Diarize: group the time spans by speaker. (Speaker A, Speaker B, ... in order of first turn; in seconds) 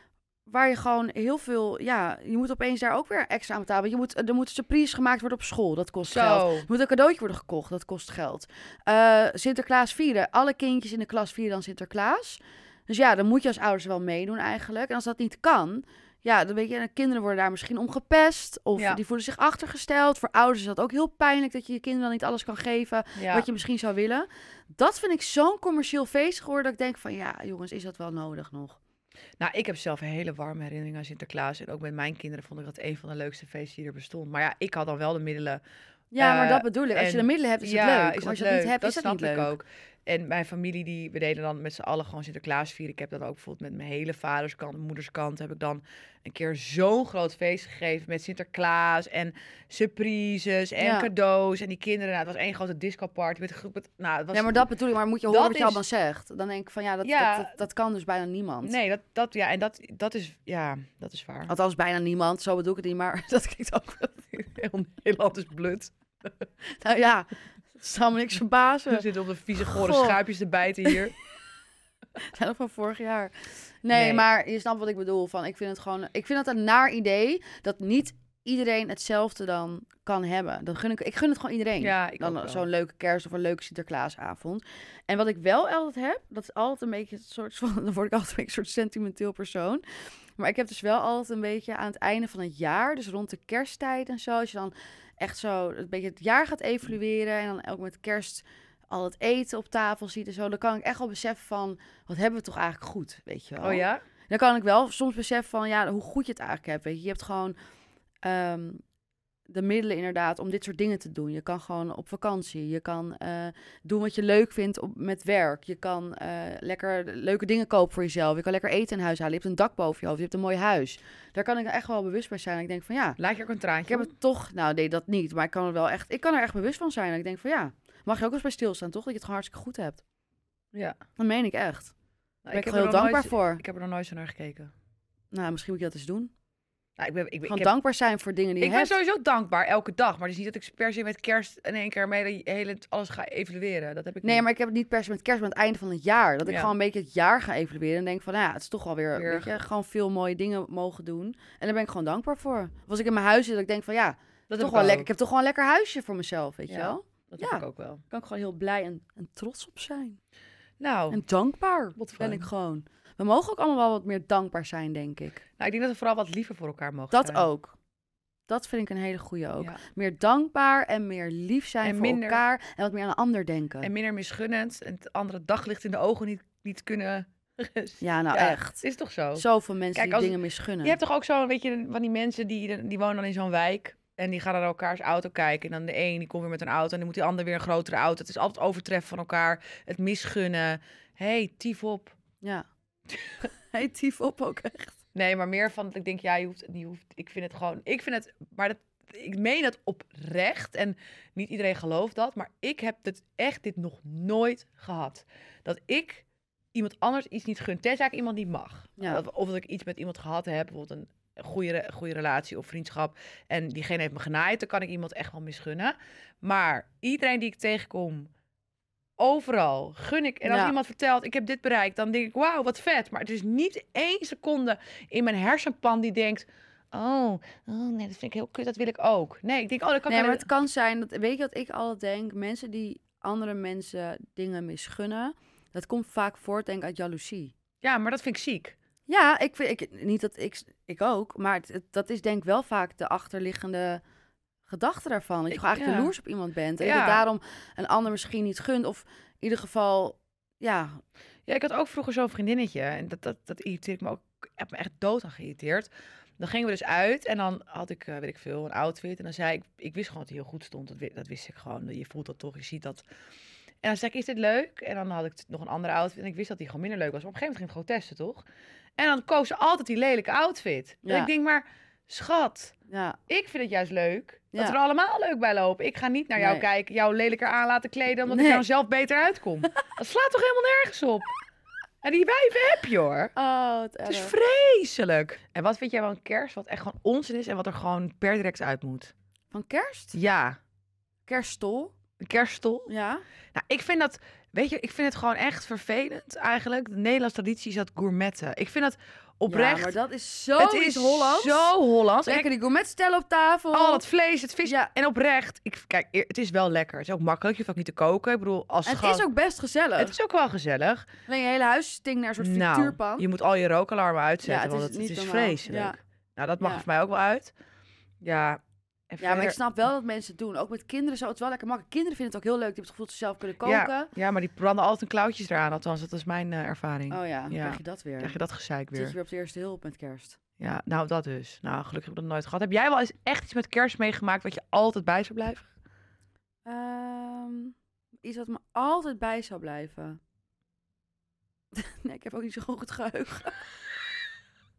Speaker A: 0.5-28.8, 36.1-39.5, 50.8-51.1, 54.3-58.8, 61.5-64.3, 66.8-69.0, 69.5-70.2, 72.2-89.8, 90.4-107.6, 108.2-108.8, 109.5-123.2, 123.9-130.0, 131.2-131.9, 132.5-133.6, 135.3-136.3, 137.5-139.0, 144.2-160.2, 161.1-165.4, 167.1-167.8, 168.5-173.9, 178.0-178.8, 179.4-181.0, 192.4-192.7, 193.4-195.0, 220.5-220.8, 230.1-237.5, 239.1-244.0, 244.7-251.0, 271.0-271.3, 272.9-273.2, 276.4-276.6, 278.3-278.6, 283.4-284.3, 289.5-290.2, 291.3-291.9, 292.9-293.2, 299.5-304.0, 308.9-310.2, 311.3-313.3, 314.4-316.0, 319.2-324.1, 327.1-328.4, 328.9-330.4, 336.7-340.2, 341.8-343.7
Speaker B: 6.0-6.7, 23.2-23.5, 29.4-35.6, 36.2-54.7, 55.3-55.8, 57.0-57.5, 58.6-61.5, 64.3-66.3, 68.9-71.1, 73.9-74.2, 81.8-82.7, 103.6-104.0, 123.2-124.1, 132.4-134.7, 137.0-137.7, 138.6-144.4, 146.4-146.7, 149.2-149.5, 154.5-155.1, 156.7-158.0, 160.8-161.2, 162.0-162.5, 165.6-167.5, 171.8-172.4, 173.8-179.4, 180.0-192.2, 195.1-218.3, 219.2-230.5, 237.8-238.8, 245.5-246.1, 246.8-247.2, 251.5-263.0, 263.8-268.4, 269.0-272.8, 273.3-281.3, 282.0-283.3, 284.1-289.1, 290.1-290.6, 292.2-292.9, 293.5-300.0, 300.6-302.5, 303.7-309.3, 310.0-311.1, 312.4-317.5, 318.2-319.6, 323.6-329.1, 330.6-335.7